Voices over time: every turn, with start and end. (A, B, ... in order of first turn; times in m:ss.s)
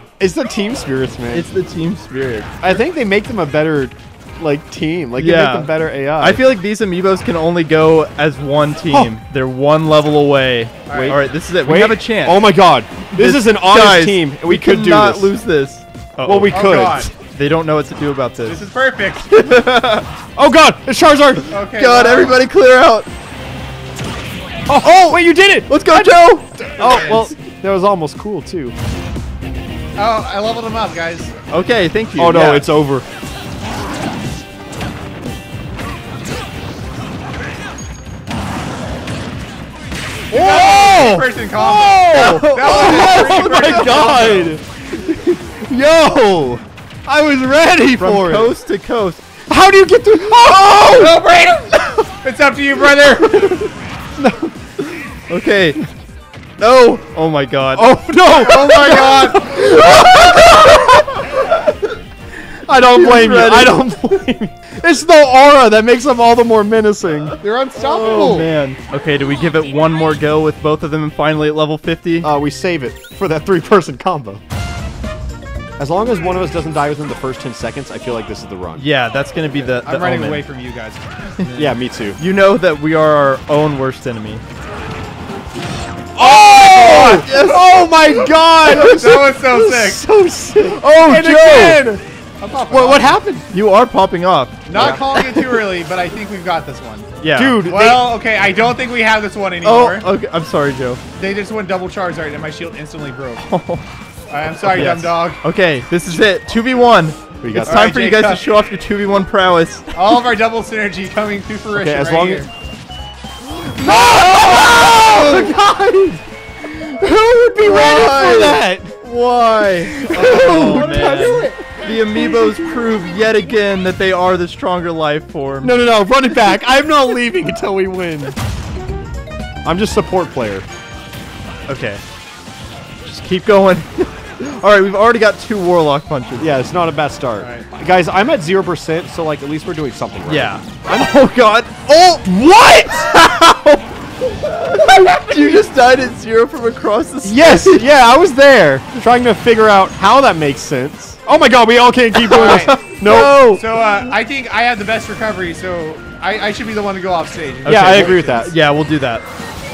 0:00.2-0:01.5 A
0:01.3-0:02.8 B
0:02.6-0:06.4 A
0:05.2-0:12.5 B
0:10.9-0:11.2 C
0:10.9-0:15.3 A
0:13.1-0:18.6 B
0:16.2-0:17.1 A
0:16.5-0:17.1 C
0:18.4-0:19.4 C
0:19.3-0:20.1 B
0:20.4-0:21.5 A
0:21.5-0:22.4 C
0:21.7-0:23.1 B
0:24.7-0:26.2 A
0:25.7-0:27.2 B
0:26.8-0:28.7 A
0:26.8-0:27.3 C
0:30.0-0:31.3 C
0:31.5-0:32.7 B
0:32.2-0:33.0 A
0:40.3-0:44.5 C
0:40.3-0:48.5 A
0:42.1-0:44.5 B
0:47.9-0:49.2 B
0:49.5-0:51.2 A
0:50.9-0:53.5 C
0:53.4-0:53.6 B
0:54.2-0:54.5 A
0:55.3-0:55.8 B
0:56.6-0:57.9 B
0:57.7-1:01.1 A
0:58.3-0:59.4 C
0:59.5-1:01.7 B
1:02.7-1:07.4 A
1:02.8-1:03.8 B
1:07.4-1:08.5 C
1:07.7-1:12.3 B
1:12.2-1:14.4 A
1:15.8-1:18.8 A
1:18.7-1:20.4 B
1:19.7-1:21.7 C
1:21.6-1:22.2 A
1:22.2-1:24.4 B
1:26.2-1:32.0 A
1:26.2-1:27.3 C
1:26.9-1:27.6 B
1:28.7-1:30.0 C
1:28.7-1:29.3 B
1:30.6-1:31.8 B
1:32.4-1:33.2 C
1:32.7-1:33.4 A
1:33.5-1:34.9 B
1:34.7-1:40.1 C
1:34.7-1:35.0 A
1:37.2-1:37.7 B
1:37.3-1:38.1 A
1:39.6-1:41.0 B
1:41.2-1:43.4 C
1:43.4-1:43.8 B
1:44.3-1:45.4 C
1:44.6-1:50.1 B
1:47.4-1:47.8 A
1:47.6-1:48.4 C
1:49.9-1:52.5 C
1:51.7-1:52.4 A
1:53.7-1:58.9 A
1:53.8-1:55.5 B
1:57.6-2:05.8 B
1:59.9-2:01.6 A
2:00.1-2:01.6 C
2:02.1-2:02.7 A
2:05.6-2:08.3 A
2:09.6-2:10.6 A
2:11.7-2:12.0 B
2:13.0-2:16.5 B
2:16.4-2:21.1 A
2:17.4-2:17.6 C
2:20.3-2:22.3 B
2:22.2-2:23.1 A
2:23.0-2:27.8 B
2:27.2-2:33.4 A
2:32.2-2:33.7 B
2:32.3-2:38.5 C
2:37.6-2:39.2 B
2:37.6-2:38.5 A